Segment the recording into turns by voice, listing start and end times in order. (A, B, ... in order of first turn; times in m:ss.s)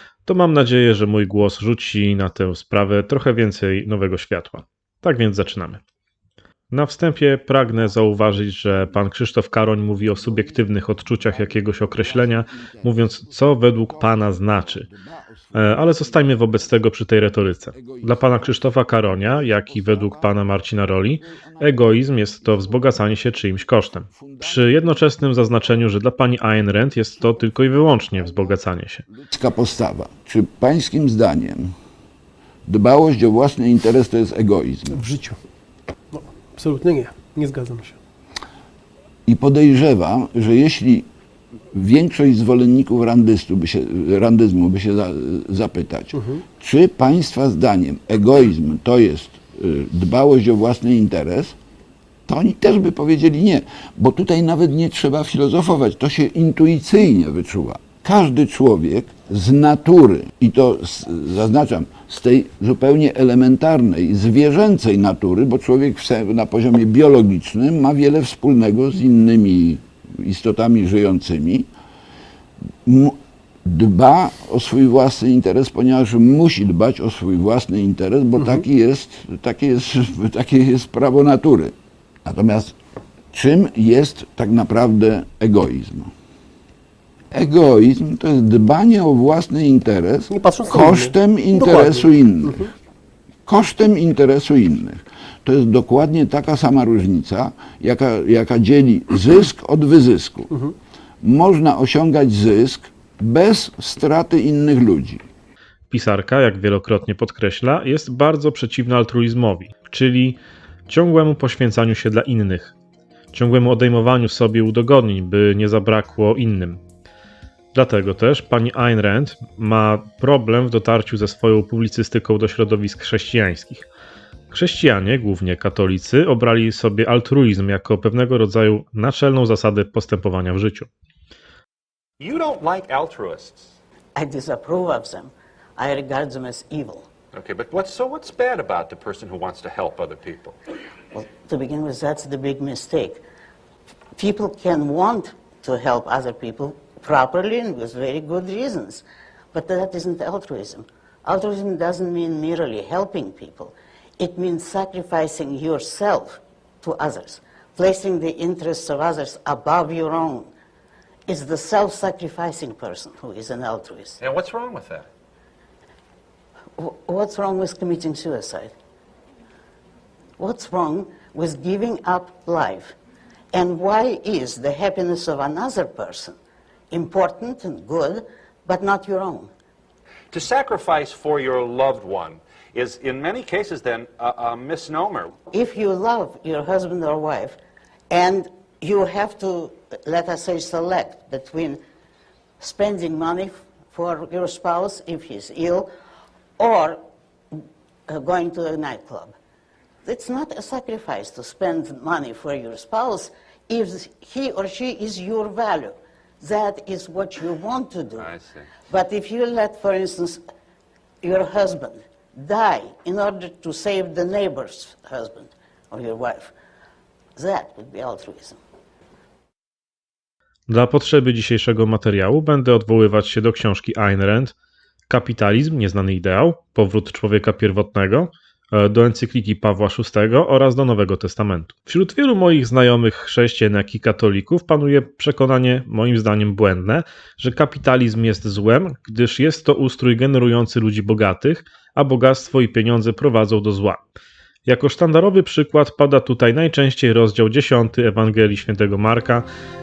0:00.2-0:05.8 A
0:06.7-0:14.9 A
0:10.1-0:24.9 B
0:15.5-0:29.0 A
0:27.2-0:31.7 B
0:32.6-0:35.0 B
0:34.9-0:35.4 C
0:36.1-0:38.0 C
0:39.2-0:41.1 B
0:41.7-0:51.5 B
0:46.1-0:46.4 C
0:52.3-1:11.7 B
1:12.8-1:21.7 B
1:18.4-1:18.6 C
1:22.2-1:22.7 B
1:23.3-1:26.1 B
1:27.3-1:32.6 B
1:30.3-1:32.7 C
1:33.4-1:40.5 B
1:41.2-1:45.2 B
1:45.9-1:52.7 A
1:53.3-1:56.8 A
1:57.7-2:03.8 A
2:04.5-2:10.9 A
2:12.2-2:13.7 D
2:14.1-2:17.1 E
2:17.3-2:20.6 D
2:21.1-2:23.2 E
2:24.1-2:40.5 E
2:41.3-2:44.2 E
2:44.2-2:45.1 D
2:46.8-2:48.7 E
2:50.4-2:52.9 E
2:53.5-2:56.4 E
2:56.9-2:59.5 E
3:00.3-3:05.3 D
3:05.5-3:07.6 E
3:08.1-3:11.8 E
3:12.6-3:15.9 E
3:16.6-3:17.0 E
3:17.5-3:19.3 E
3:20.0-3:28.3 E
3:28.9-3:30.4 E
3:31.2-3:36.5 E
3:37.4-3:38.6 E
3:40.7-3:44.5 A
3:45.1-4:04.0 A
4:04.6-4:09.5 A